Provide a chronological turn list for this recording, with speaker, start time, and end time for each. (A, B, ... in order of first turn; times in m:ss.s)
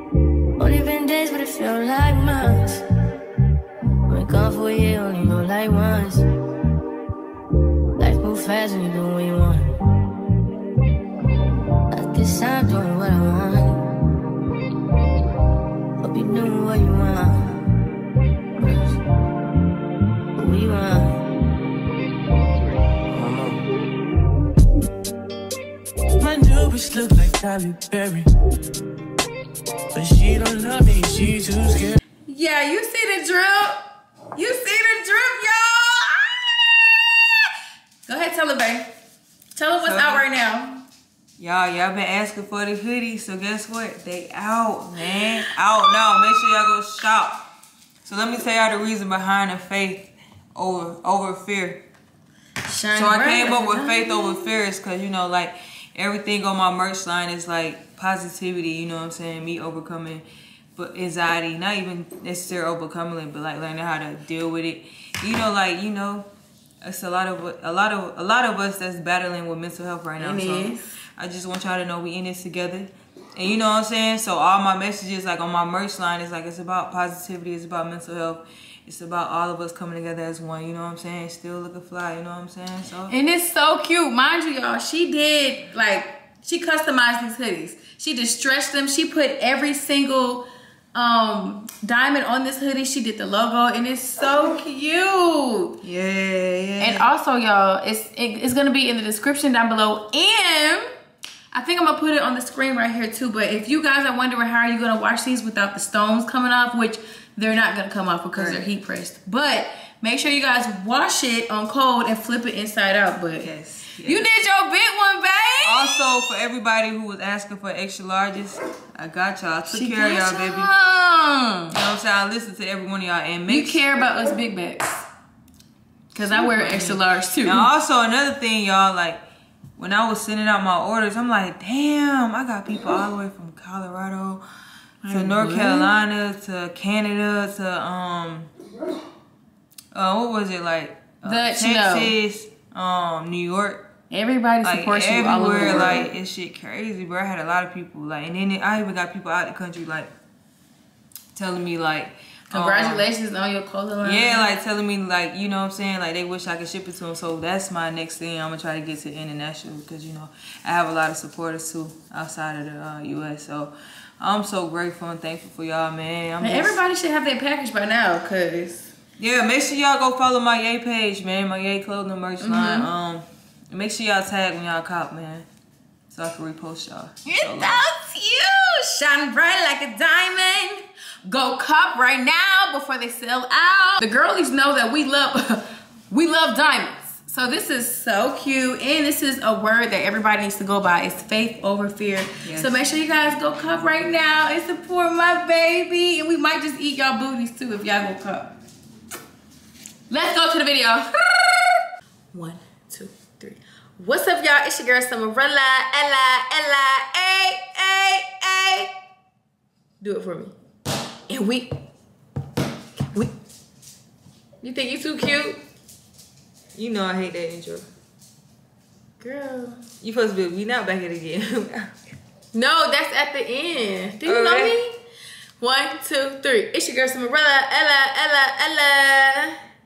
0:00.6-0:02.8 A
0:04.1-0:06.2 A
0:08.0-0:09.7 A
0:11.9-0:13.8 A
0:16.0-0:17.6 A
0:20.4-0:21.2 A
0:23.1-0:23.6 B
0:26.2-0:28.3 B
0:29.9-0:32.0 B
0:32.3-0:33.8 C
0:34.3-0:37.2 C
0:38.0-0:38.9 C
0:39.5-0:40.8 C
0:39.8-0:40.2 D
0:41.4-0:47.4 D
0:48.0-0:51.8 D
0:52.7-0:54.5 C
0:52.9-1:06.3 D
1:06.8-1:23.1 D
1:10.2-1:10.9 C
1:23.1-1:35.8 C
1:35.8-1:37.1 D
1:36.8-1:40.8 C
1:41.5-1:53.5 C
1:48.3-1:48.7 D
1:53.4-1:54.2 D
1:54.0-1:56.0 C
1:55.6-2:00.7 D
1:59.7-2:01.8 C
2:01.7-2:03.9 D
2:03.5-2:05.0 C
2:06.1-2:07.7 C
2:06.3-2:09.2 D
2:09.8-2:14.4 D
2:15.0-2:15.9 C
2:15.1-2:18.5 D
2:19.9-2:23.9 D
2:21.2-2:22.1 C
2:24.1-2:26.1 C
2:24.6-2:30.1 D
2:31.3-2:33.1 D
2:32.5-2:34.5 C
2:34.0-2:46.8 D
2:46.4-2:48.9 C
2:49.2-2:55.5 D
2:52.4-2:52.9 C
2:56.1-2:57.8 D
2:57.2-3:18.5 C
3:12.4-3:12.7 D
3:20.1-3:21.8 C
3:22.3-3:28.9 C
3:30.0-3:30.5 C
3:31.3-3:31.7 C
3:34.6-3:35.6 C
3:36.7-3:37.9 D
3:39.2-3:39.8 C
3:40.0-3:41.9 D
3:42.5-3:45.0 C
3:44.2-3:44.8 D
3:45.6-3:49.6 C